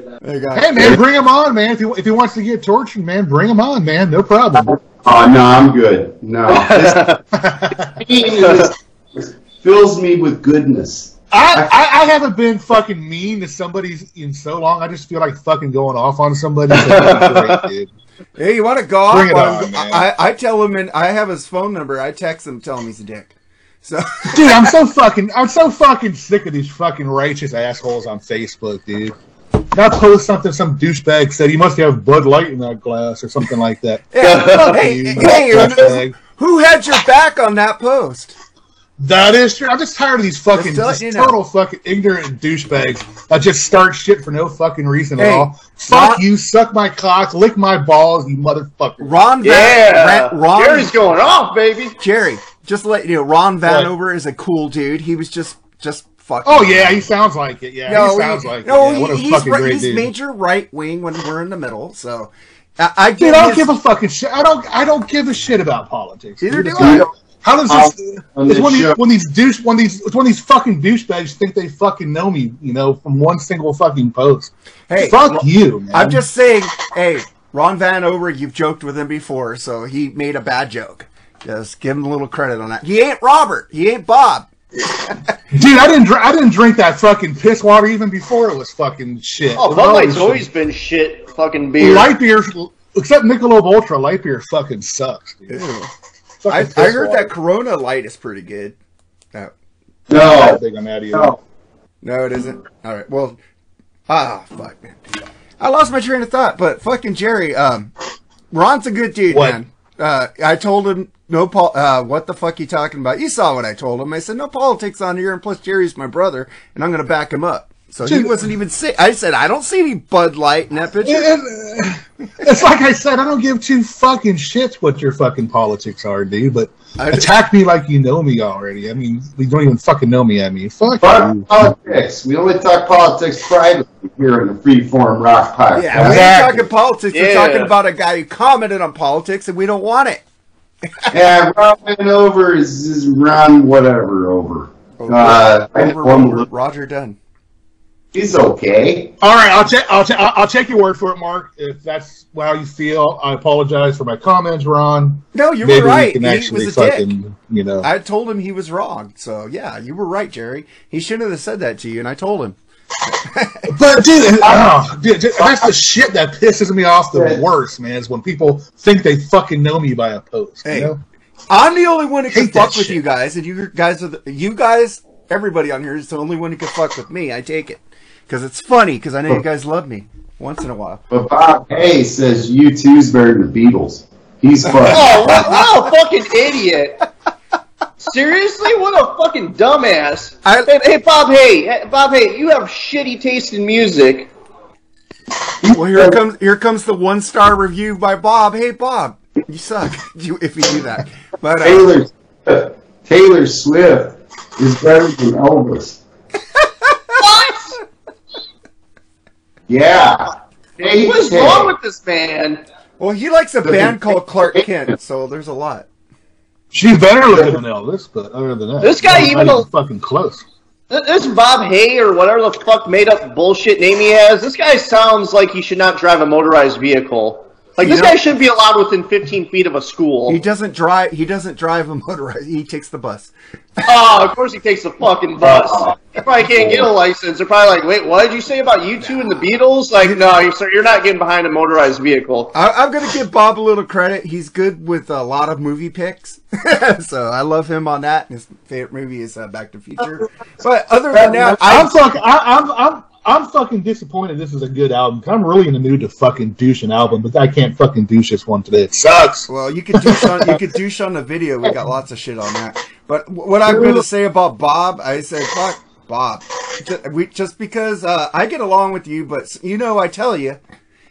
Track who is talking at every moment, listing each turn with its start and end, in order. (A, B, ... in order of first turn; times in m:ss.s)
0:00.2-0:01.0 A
0:00.5-0:04.8 B
0:04.7-0:07.1 C
0:06.5-0:07.2 D
0:07.3-0:07.9 B
0:08.0-0:11.7 C
0:11.3-0:17.9 B
0:16.8-0:17.6 D
0:18.4-0:24.6 A
0:19.1-0:20.0 B
0:24.3-0:29.1 B
0:29.7-0:36.2 B
0:34.1-0:38.4 A
0:34.2-0:34.7 D
0:39.0-0:49.1 B
0:40.5-0:41.3 A
0:45.2-0:46.2 A
0:49.0-0:51.0 A
0:49.4-0:52.0 D
0:52.0-0:57.0 A
0:53.6-0:53.9 B
0:56.4-1:00.1 B
0:57.9-1:03.7 A
1:03.2-1:16.2 B
1:06.4-1:07.0 A
1:06.8-1:07.1 C
1:07.7-1:09.0 C
1:14.9-1:25.3 A
1:25.5-1:30.5 B
1:29.6-1:32.1 D
1:31.8-1:35.6 B
1:35.5-1:35.9 A
1:36.4-1:37.3 B
1:36.5-1:38.8 A
1:40.1-1:40.6 C
1:40.2-1:41.4 B
1:42.0-1:43.4 A
1:44.1-1:45.0 A
1:45.6-1:47.9 A
1:48.5-2:01.3 A
1:49.3-1:49.6 B
1:58.0-1:58.4 B
2:01.0-2:11.4 B
2:07.0-2:07.3 A
2:11.0-2:16.4 C
2:15.7-2:20.2 A
2:15.9-2:16.6 B
2:17.1-2:17.7 D
2:21.1-2:26.4 C
2:25.0-2:27.2 A
2:28.1-2:29.1 C
2:29.2-2:37.9 B
2:35.3-2:37.1 A
2:37.8-2:42.6 A
2:43.2-2:43.7 A
2:43.7-2:51.0 B
2:47.1-2:47.4 C
2:50.6-2:50.9 A
2:51.5-3:01.0 A
2:52.3-2:53.0 B
3:01.1-3:05.4 C
3:04.7-3:05.8 A
3:04.9-3:07.0 D
3:08.0-3:14.3 D
3:10.4-3:10.7 A
3:15.6-3:16.2 C
3:15.7-3:21.9 A
3:21.6-3:26.0 C
3:27.2-3:27.8 D
3:29.7-3:31.7 C
3:30.8-3:32.6 D
3:33.0-3:35.9 A
3:33.6-3:34.7 C
3:36.7-3:40.4 B
3:38.8-3:39.6 D
3:40.9-3:50.4 D
3:47.8-3:48.2 A
3:50.3-3:53.3 A
3:53.8-4:02.5 D
3:55.4-3:55.9 C
3:56.6-3:56.8 C
4:02.5-4:11.9 A
4:11.3-4:11.5 C
4:11.6-4:19.5 B
4:19.5-4:30.6 A
4:20.0-4:20.3 B
4:23.6-4:24.0 C